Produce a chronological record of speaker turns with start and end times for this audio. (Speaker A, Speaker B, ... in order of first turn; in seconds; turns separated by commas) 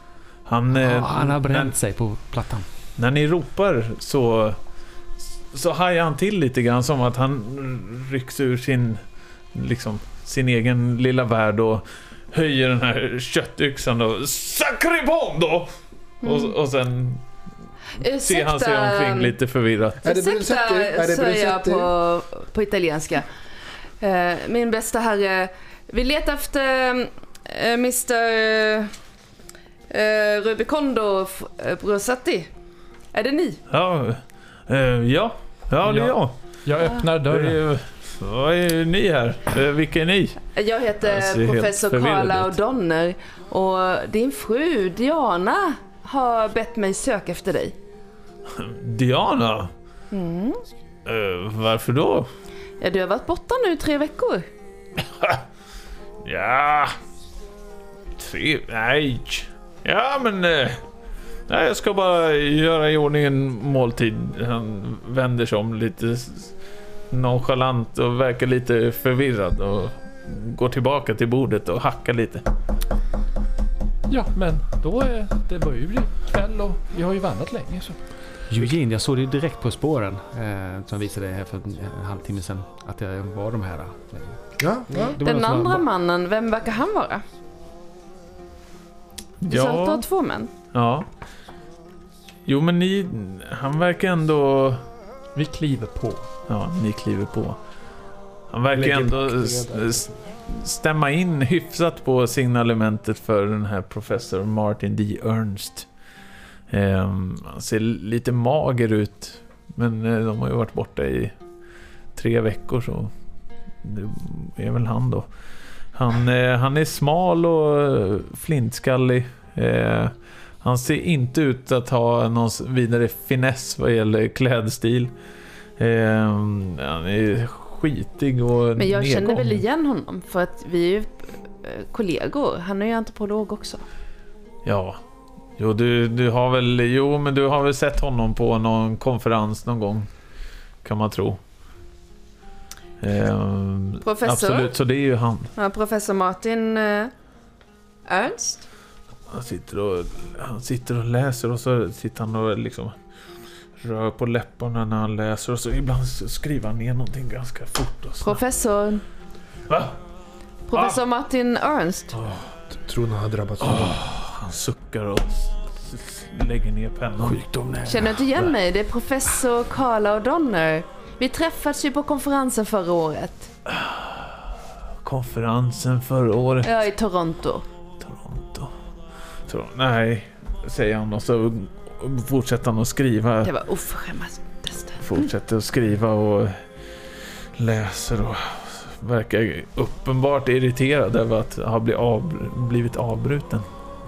Speaker A: 0.5-1.8, Speaker B: 0.7-2.7, Speaker A: 3.0-4.6, Speaker A: 5.2-9.0, Speaker A: 9.5-17.2, Speaker C: 16.2-16.6, Speaker C: 18.0-19.3, Speaker A: 18.0-20.1, Speaker D: 20.0-21.9, Speaker C: 20.0-23.3, Speaker C: 24.0-28.9, Speaker C: 29.9-32.5, Speaker C: 33.1-33.6, Speaker A: 33.7-36.5, Speaker E: 35.8-37.6, Speaker A: 37.3-40.5, Speaker C: 40.5-47.8, Speaker A: 41.0-42.5, Speaker A: 48.5-49.7, Speaker C: 50.1-50.6, Speaker A: 51.1-52.3, Speaker C: 52.8-54.5, Speaker A: 56.2-56.9, Speaker A: 58.2-60.8, Speaker A: 61.5-66.5, Speaker A: 67.1-72.4, Speaker E: 74.1-78.1, Speaker B: 78.5-85.9, Speaker D: 84.6-85.2, Speaker C: 85.2-87.2, Speaker A: 89.4-90.1, Speaker C: 89.5-90.5, Speaker A: 90.7-91.1, Speaker A: 92.5-94.8, Speaker E: 95.3-96.3, Speaker A: 96.5-97.6, Speaker A: 98.5-105.9, Speaker D: 98.7-100.2, Speaker A: 106.7-111.3, Speaker A: 112.1-113.1, Speaker A: 113.8-115.3, Speaker A: 115.9-125.1, Speaker A: 125.8-129.6, Speaker C: 128.8-133.8, Speaker A: 134.7-135.0, Speaker A: 135.6-140.1, Speaker A: 140.8-141.4, Speaker A: 143.0-145.5, Speaker C: 144.0-144.7, Speaker C: 145.6-147.1, Speaker C: 148.1-148.6, Speaker A: 149.3-153.0, Speaker A: 153.8-158.4, Speaker C: 158.2-159.0, Speaker A: 159.7-160.0, Speaker C: 160.7-162.2, Speaker A: 160.7-161.0, Speaker A: 162.1-162.5, Speaker D: 162.8-164.0, Speaker A: 163.6-167.4, Speaker B: 167.2-168.3, Speaker C: 167.9-173.5, Speaker A: 173.7-174.5, Speaker A: 175.0-176.9, Speaker C: 176.6-177.6, Speaker A: 178.0-178.7, Speaker A: 179.5-183.5, Speaker C: 183.4-185.3, Speaker A: 185.0-186.6, Speaker A: 187.2-193.7